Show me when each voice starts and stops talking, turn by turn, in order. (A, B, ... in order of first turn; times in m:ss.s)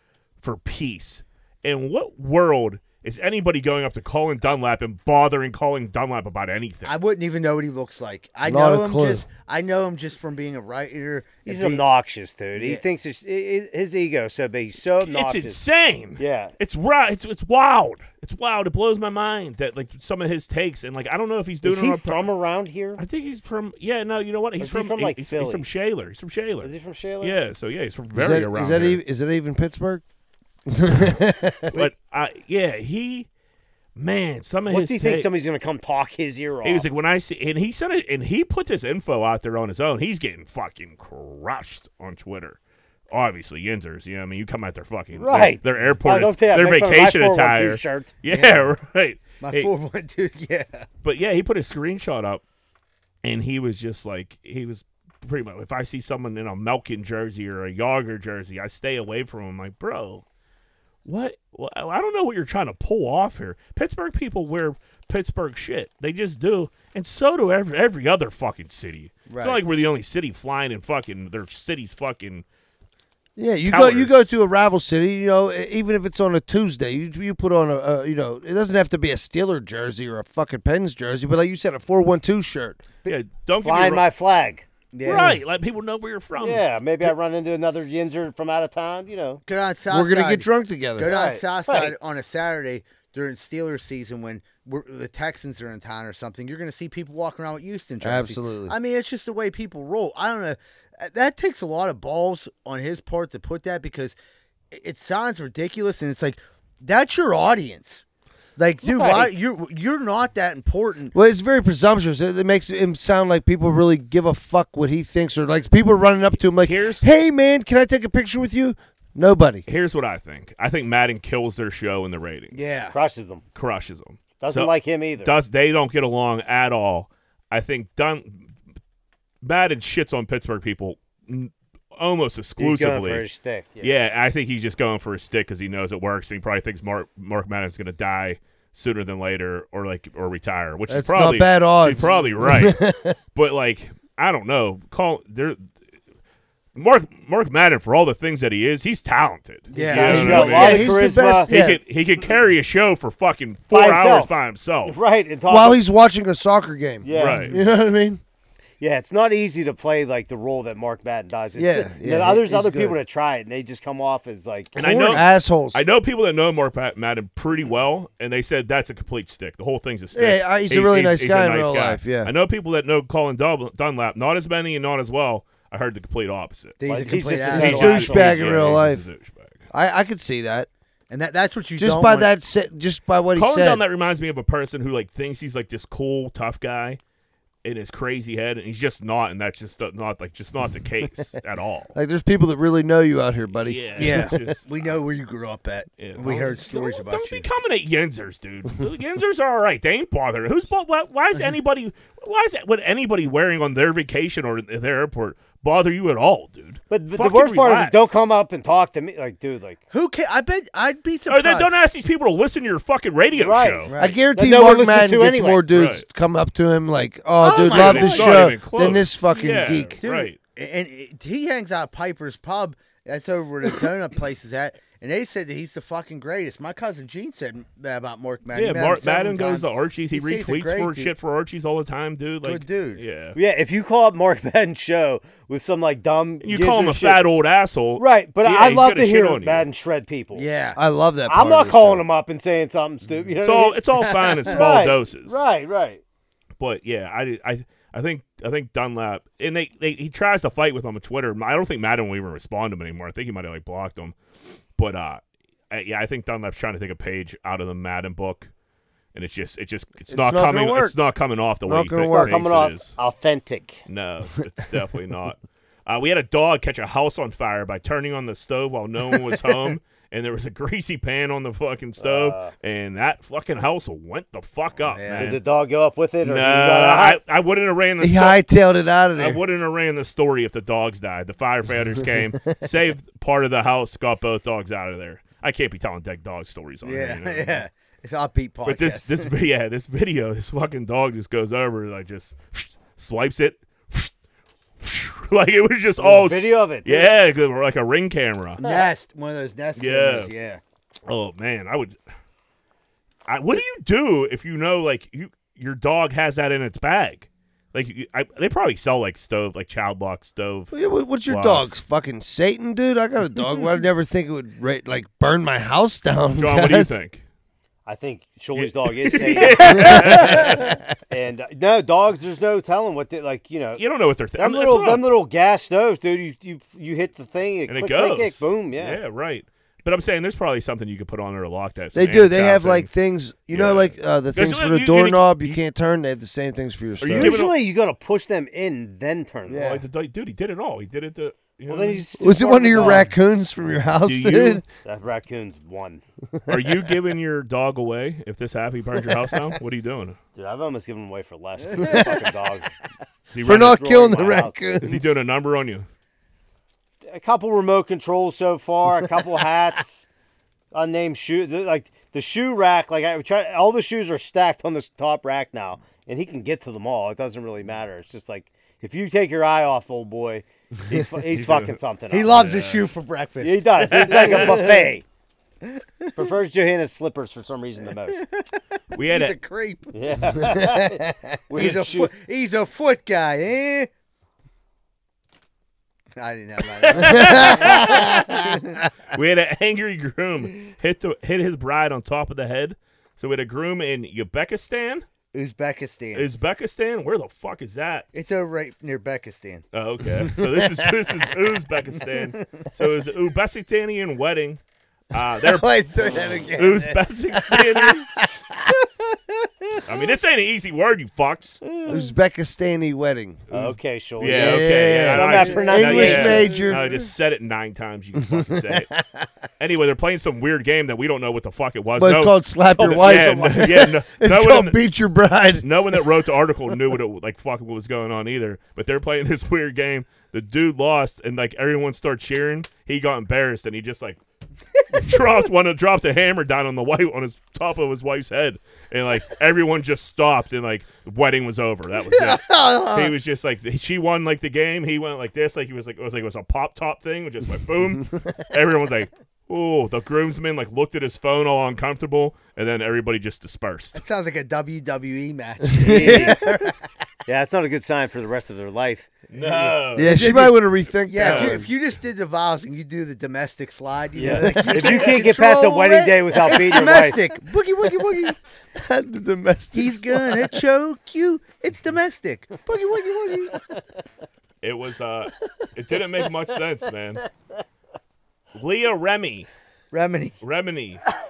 0:00.4-0:06.9 A
0:06.8-0:11.9 B
0:08.4-0:09.2 C
0:11.4-0:15.6 D
0:12.5-0:12.8 B
0:15.0-0:22.2 A
0:16.2-0:16.5 D
0:21.6-0:23.0 D
0:23.0-0:29.0 A
0:24.6-0:25.6 D
0:26.6-0:27.4 D
0:28.1-0:30.0 C
0:30.7-0:31.9 C
0:31.7-0:33.3 A
0:34.0-0:35.3 A
0:34.7-0:36.9 D
0:36.6-0:42.6 A
0:43.1-0:49.7 A
0:45.1-0:48.1 D
0:48.3-0:48.6 B
0:49.4-0:50.8 B
0:51.0-0:52.4 A
0:53.2-1:00.2 A
1:01.0-1:12.4 A
1:09.3-1:09.6 B
1:13.4-1:22.8 C
1:13.6-1:14.2 A
1:23.0-1:24.0 A
1:23.6-1:24.6 D
1:24.9-1:25.4 B
1:25.0-1:27.1 A
1:26.4-1:29.4 D
1:29.4-1:44.1 B
1:29.9-1:31.1 C
1:31.0-1:31.9 D
1:38.0-1:38.7 C
1:44.7-1:48.0 B
1:48.6-1:51.1 B
1:48.8-1:49.3 D
1:51.1-1:59.6 C
1:56.6-1:57.0 A
1:59.6-2:02.6 A
2:02.5-2:03.0 B
2:02.9-2:03.4 D
2:03.5-2:08.5 A
2:04.4-2:05.3 D
2:09.4-2:13.2 A
2:12.6-2:13.9 D
2:13.8-2:22.8 A
2:20.9-2:23.2 C
2:23.3-2:25.7 A
2:26.7-2:31.0 A
2:29.7-2:30.7 B
2:29.7-2:31.5 D
2:30.0-2:31.8 C
2:31.5-2:35.0 A
2:33.7-2:35.8 D
2:35.5-2:38.2 C
2:37.0-2:37.5 D
2:37.1-2:37.6 A
2:38.8-2:45.2 D
2:41.5-2:43.0 C
2:44.7-2:56.8 A
2:44.8-2:45.8 C
2:50.1-2:52.3 C
2:56.8-2:58.0 B
2:56.8-2:58.7 D
2:57.4-2:59.0 C
2:57.5-2:59.6 A
2:59.7-3:00.7 C
3:01.1-3:02.3 B
3:01.8-3:03.8 C
3:03.3-3:07.0 A
3:07.6-3:11.9 A
3:11.9-3:14.5 C
3:13.6-3:15.0 A
3:14.0-3:17.4 B
3:16.0-3:28.1 A
3:26.9-3:29.8 D
3:29.9-3:31.7 B
3:31.3-3:33.9 A
3:33.3-3:35.6 D
3:33.9-3:34.2 B
3:34.0-3:40.0 C
3:35.7-3:36.0 A
3:37.4-3:38.6 B
3:37.6-3:40.4 A
3:40.0-3:51.1 B
3:48.5-3:53.4 A
3:52.4-3:53.0 B
3:53.3-3:57.2 D
3:56.4-3:59.6 A
3:58.0-4:00.4 D
4:00.3-4:00.8 B
4:00.7-4:02.0 C
4:01.3-4:03.8 D
4:03.4-4:05.4 A
4:04.0-4:04.6 B
4:04.4-4:06.0 D
4:06.6-4:14.1 A
4:14.8-4:18.5 A
4:19.1-4:22.9 A
4:20.1-4:21.0 C
4:21.6-4:22.4 C
4:22.0-4:23.8 D
4:23.8-4:35.4 A
4:32.0-4:32.5 D
4:34.8-4:35.4 B
4:35.1-4:37.2 D
4:36.2-4:38.4 A
4:38.0-4:39.4 C
4:39.2-4:47.6 A
4:46.8-4:49.3 B
4:48.6-4:54.1 A
4:54.8-4:58.6 A
4:56.0-4:57.1 D
4:58.6-5:00.6 B
4:58.6-4:58.9 D
4:59.7-5:00.3 A
5:01.1-5:02.0 A
5:03.3-5:10.7 A
5:10.7-5:17.0 C
5:11.2-5:11.7 A
5:16.4-5:17.2 A
5:17.8-5:20.5 D
5:18.5-5:20.8 A
5:19.7-5:20.8 C
5:21.1-5:23.8 D
5:23.8-5:25.0 A
5:24.4-5:29.0 D
5:27.7-5:32.9 A
5:31.9-5:37.4 C
5:33.5-5:35.6 A
5:37.0-5:37.6 A
5:37.1-5:39.8 D
5:39.5-5:39.8 C
5:39.6-5:42.1 A
5:41.7-5:43.1 D
5:42.2-5:44.6 C
5:42.7-5:43.0 A
5:44.0-5:44.6 A
5:44.8-5:46.0 D
5:46.5-5:50.2 A
5:50.3-5:52.7 D
5:51.8-5:52.1 C
5:53.3-5:55.9 A
5:53.4-5:54.6 D
5:53.4-5:55.2 C
5:57.0-6:00.0 D
6:00.7-6:12.6 D
6:11.3-6:11.8 A
6:12.1-6:14.8 B
6:12.3-6:12.8 A
6:13.4-6:15.0 D
6:13.9-6:14.6 A
6:15.6-6:16.2 B
6:16.2-6:18.2 D
6:18.1-6:23.9 B
6:18.9-6:19.4 A
6:19.9-6:22.1 D
6:20.5-6:20.8 C
6:26.2-6:28.9 B
6:26.9-6:28.6 A
6:27.0-6:28.0 C
6:29.1-6:35.0 A
6:35.3-6:36.3 B
6:36.1-6:38.1 A
6:38.1-6:39.6 B
6:39.7-6:44.6 A
6:40.4-6:40.6 C
6:42.1-6:42.6 B
6:45.1-6:45.7 A
6:45.4-6:48.7 C
6:46.5-6:48.1 A
6:49.1-6:49.8 B
6:49.8-6:51.6 A
6:51.7-6:52.0 B
6:51.9-6:53.4 C
6:53.5-6:58.9 A
6:53.5-6:56.5 D
6:54.2-6:56.9 C
6:56.5-6:56.7 B
6:59.6-7:04.8 A
7:02.0-7:06.2 C
7:02.7-7:03.7 D
7:05.6-7:14.2 A
7:14.9-7:34.0 A
7:22.1-7:23.1 B
7:33.9-7:36.8 B
7:35.7-7:36.6 C
7:35.8-7:36.4 D
7:37.3-7:39.1 D
7:39.3-7:40.3 A
7:39.5-7:48.4 B
7:40.0-7:41.7 C
7:41.2-7:41.6 A
7:44.2-7:47.2 D
7:44.3-7:44.8 C
7:44.7-7:45.0 A
7:48.7-7:50.6 C
7:49.7-7:53.7 B
7:54.6-7:57.3 A
7:58.6-7:59.5 A
7:59.9-8:00.4 B
8:00.4-8:01.0 A